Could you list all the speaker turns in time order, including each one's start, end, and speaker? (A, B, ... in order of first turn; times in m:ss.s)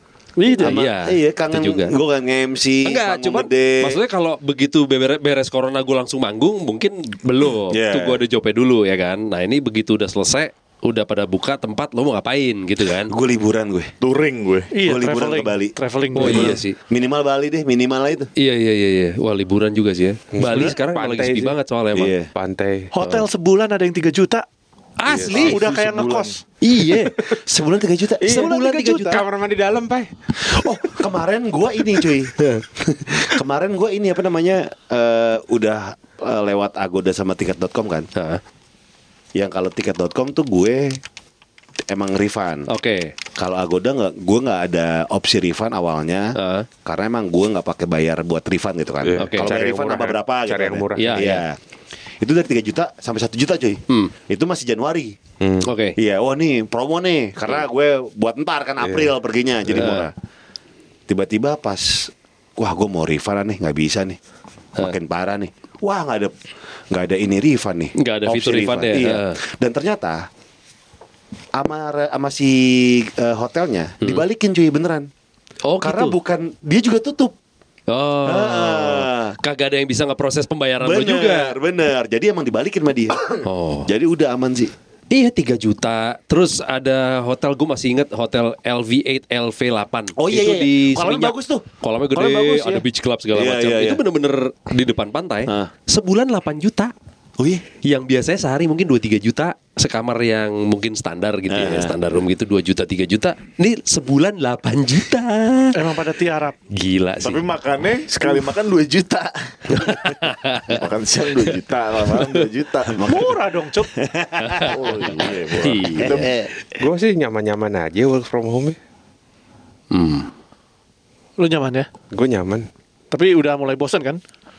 0:00.4-0:00.8 A
0:00.6-0:04.0 B
0:00.6-0:01.9 C
0:02.8-0:13.1 C
0:07.7-0:08.2 B
0:13.1-0:13.9 B
0:14.0-0:14.7 D
0:14.7-0:16.5 A
0:14.8-0:18.3 B
0:16.1-0:16.8 C
0:18.4-0:22.1 C
0:20.3-0:21.5 E
0:21.9-0:22.3 B
0:22.3-0:22.9 E
0:22.9-0:24.4 A
0:25.0-0:25.6 C
0:25.1-0:25.5 E
0:25.3-0:26.4 A
0:25.3-0:26.3 B
0:26.6-0:27.1 C
0:27.4-0:28.6 B
0:28.2-0:30.1 E
0:28.2-0:29.2 C
0:28.2-0:29.2 A
0:30.5-0:38.1 B
0:38.2-0:38.4 C
0:39.3-0:41.0 B
0:41.9-0:42.7 B
0:42.7-0:43.1 C
0:43.4-0:51.6 B
0:46.4-0:46.7 C
0:49.0-0:51.4 E
0:49.2-0:49.5 C
0:51.0-0:51.4 C
0:52.2-0:55.2 B
0:55.4-0:55.7 E
0:55.6-0:56.0 C
0:56.0-1:00.1 B
0:58.8-0:59.1 E
0:59.7-1:00.1 C
1:01.1-1:04.2 B
1:04.8-1:06.3 B
1:06.9-1:10.2 B
1:08.0-1:09.4 C
1:11.5-1:15.1 B
1:15.6-1:16.2 C
1:15.8-1:17.3 B
1:17.9-1:21.6 C
1:18.2-1:19.3 B
1:20.8-1:24.7 B
1:23.4-1:23.9 C
1:25.1-1:36.9 C
1:30.2-1:31.6 B
1:32.2-1:32.8 A
1:33.3-1:34.0 B
1:37.4-1:37.6 B
1:37.8-1:45.8 C
1:41.5-1:42.0 B
1:45.7-1:46.6 A
1:46.7-1:47.4 C
1:47.2-1:49.8 D
1:50.0-1:50.8 C
1:50.7-1:53.0 D
1:52.2-1:52.5 C
1:52.9-1:53.3 B
1:53.0-1:53.9 A
1:53.9-1:56.5 B
1:54.4-1:54.8 C
1:54.7-1:56.3 D
1:55.5-1:56.3 C
1:56.8-1:58.8 E
1:59.9-2:00.3 C
2:01.4-2:01.9 A
2:02.1-2:02.7 E
2:03.1-2:04.2 A